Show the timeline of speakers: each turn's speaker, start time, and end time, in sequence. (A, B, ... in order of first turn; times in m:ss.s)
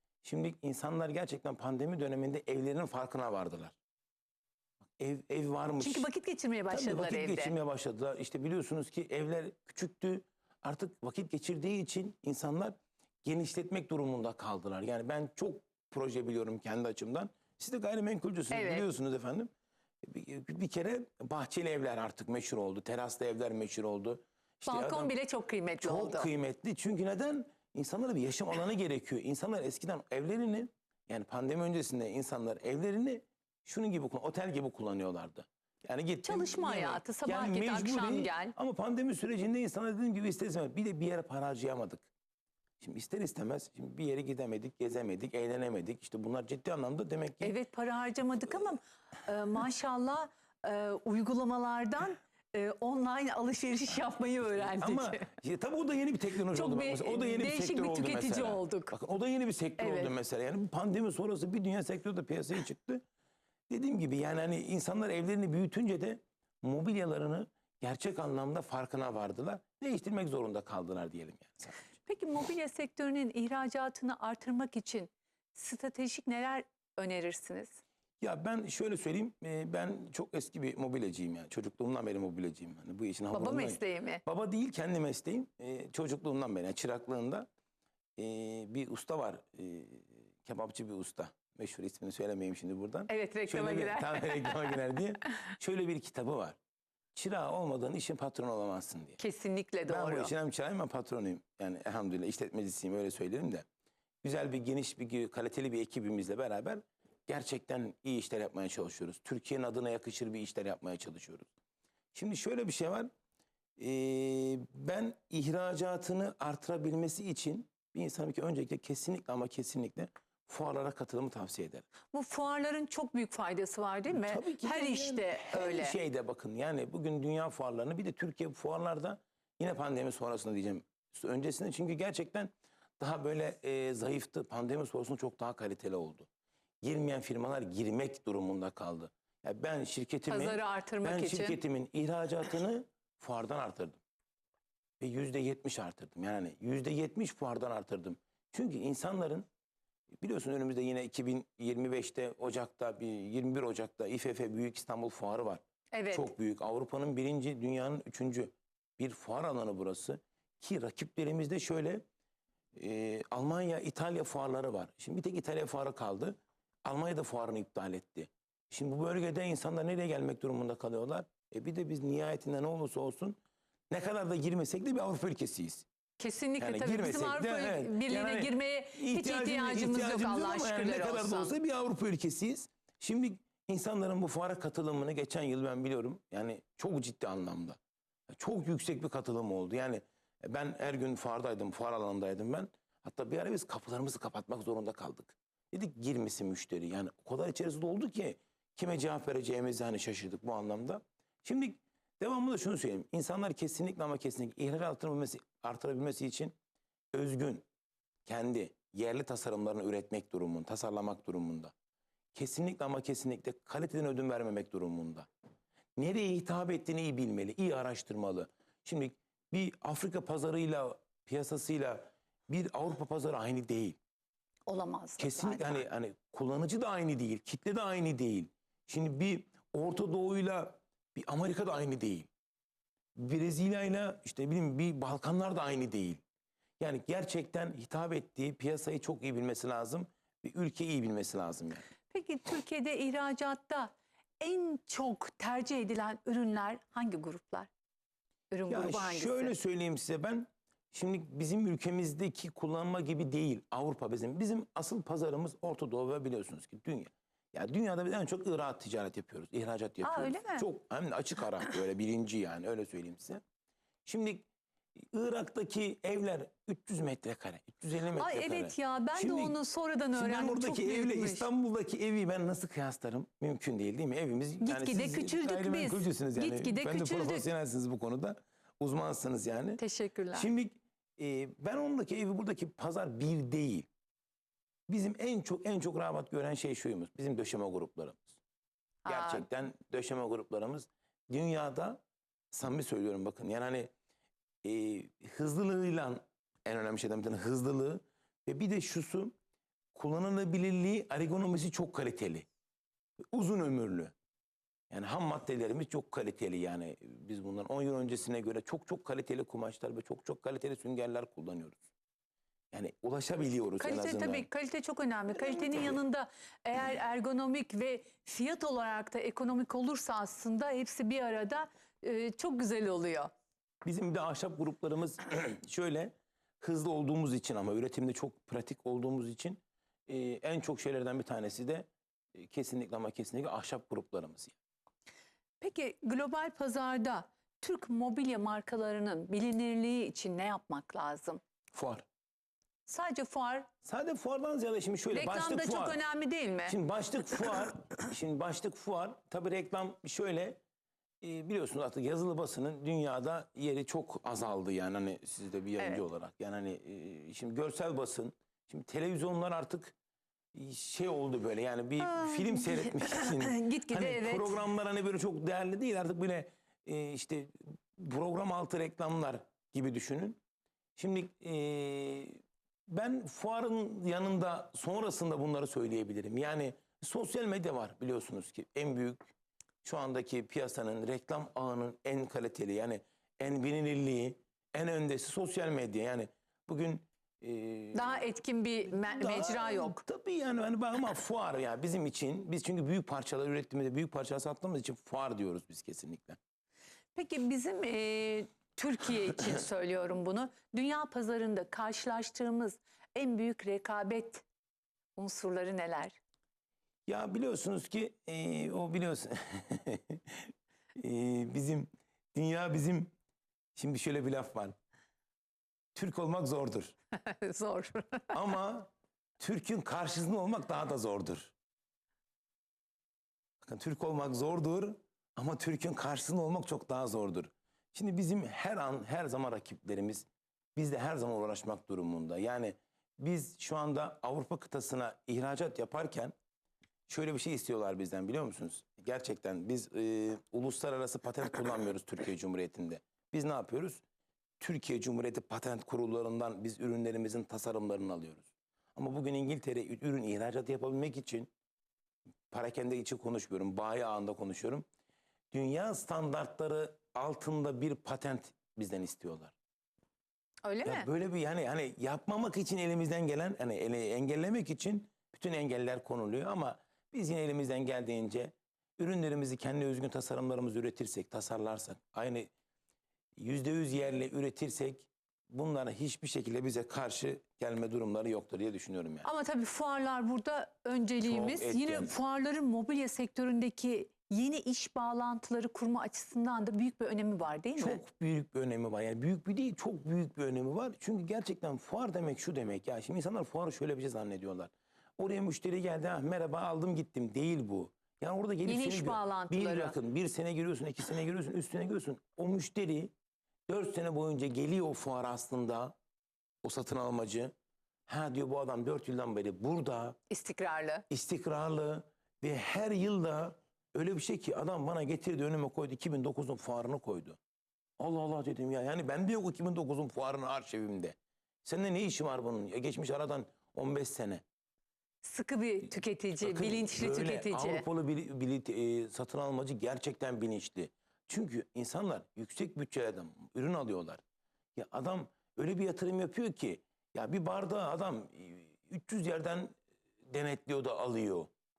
0:00.2-0:03.8 A
0:05.0-0:06.1 A
0:05.8-0:07.5 B
0:06.7-0:19.5 A
0:18.5-0:18.8 B
0:20.0-0:25.1 A
0:24.7-0:26.3 B
0:25.8-0:42.1 A
0:36.2-0:38.5 B
0:42.8-0:47.5 A
0:47.4-0:55.3 B
0:54.7-1:03.0 A
0:56.5-0:58.9 B
0:59.8-1:00.1 B
1:03.7-1:11.9 A
1:12.0-1:17.8 B
1:18.2-1:27.5 A
1:23.3-1:24.2 B
1:28.2-1:36.6 A
1:33.1-1:34.7 B
1:37.1-1:39.2 A
1:39.2-1:40.3 B
1:39.9-1:43.6 A
1:44.2-1:51.5 A
1:52.1-1:53.1 A
1:53.8-2:01.8 A
2:02.1-2:06.0 B
2:04.1-2:16.3 A
2:16.8-2:24.0 A
2:20.3-2:21.6 B
2:25.0-2:29.4 A
2:30.2-2:42.0 A
2:35.9-2:36.3 B
2:42.7-2:53.4 A
2:53.9-2:55.8 A
2:56.2-3:01.5 B
2:56.6-3:26.5 A
3:27.1-3:27.6 A
3:28.2-3:31.7 A
3:32.3-3:35.3 A
3:36.0-3:44.0 A
3:44.7-3:45.8 B
3:45.2-3:52.3 A
3:53.2-3:56.2 A
3:56.8-4:01.9 A
4:02.1-4:07.7 B
4:08.5-4:09.5 B
4:08.7-4:23.4 A
4:20.0-4:20.7 B
4:24.0-4:29.6 A
4:28.2-4:31.5 B
4:30.1-4:39.8 A
4:34.6-4:37.5 B
4:39.8-4:40.5 B
4:40.3-4:43.9 A
4:44.9-4:48.4 A
4:49.0-4:49.4 B
4:49.1-4:52.0 A
4:52.5-4:53.9 A
4:54.6-4:59.3 A
4:59.9-5:02.5 A
5:03.3-5:04.1 A
5:04.9-5:11.8 A
5:12.7-5:14.5 A
5:13.8-5:23.3 B
5:23.8-5:34.5 A
5:35.6-5:41.4 B
5:41.7-5:42.0 A
5:42.9-5:43.7 B
5:43.8-5:46.0 A
5:45.1-5:46.8 B
5:46.7-5:50.6 A
5:51.2-5:59.9 A
5:55.8-5:56.0 B
6:00.5-6:10.4 A
6:02.0-6:04.6 B
6:11.0-6:19.2 A
6:19.8-6:28.3 A
6:27.9-6:30.0 B
6:28.9-6:36.4 A
6:37.1-6:44.4 B
6:45.2-6:46.2 B
6:47.1-6:53.1 A
6:53.8-6:54.7 A
6:55.9-6:56.9 A
6:57.1-6:58.3 B
6:58.3-7:01.5 A
7:03.6-7:16.3 A
7:17.1-7:24.0 A
7:24.6-7:31.5 A
7:32.5-7:34.8 A
7:35.5-7:39.5 A
7:40.6-7:41.1 B
7:40.8-7:52.5 A
7:53.4-7:59.3 A
7:59.2-8:08.0 B
8:01.2-8:02.1 A
8:07.8-8:23.1 A
8:18.6-8:20.0 B
8:23.7-8:25.9 A
8:26.6-8:27.5 A
8:28.1-8:30.2 A
8:30.3-8:31.0 B
8:31.1-8:37.4 A
8:38.0-8:44.4 A
8:45.2-8:47.8 B
8:46.4-8:54.2 A
8:54.7-9:01.5 A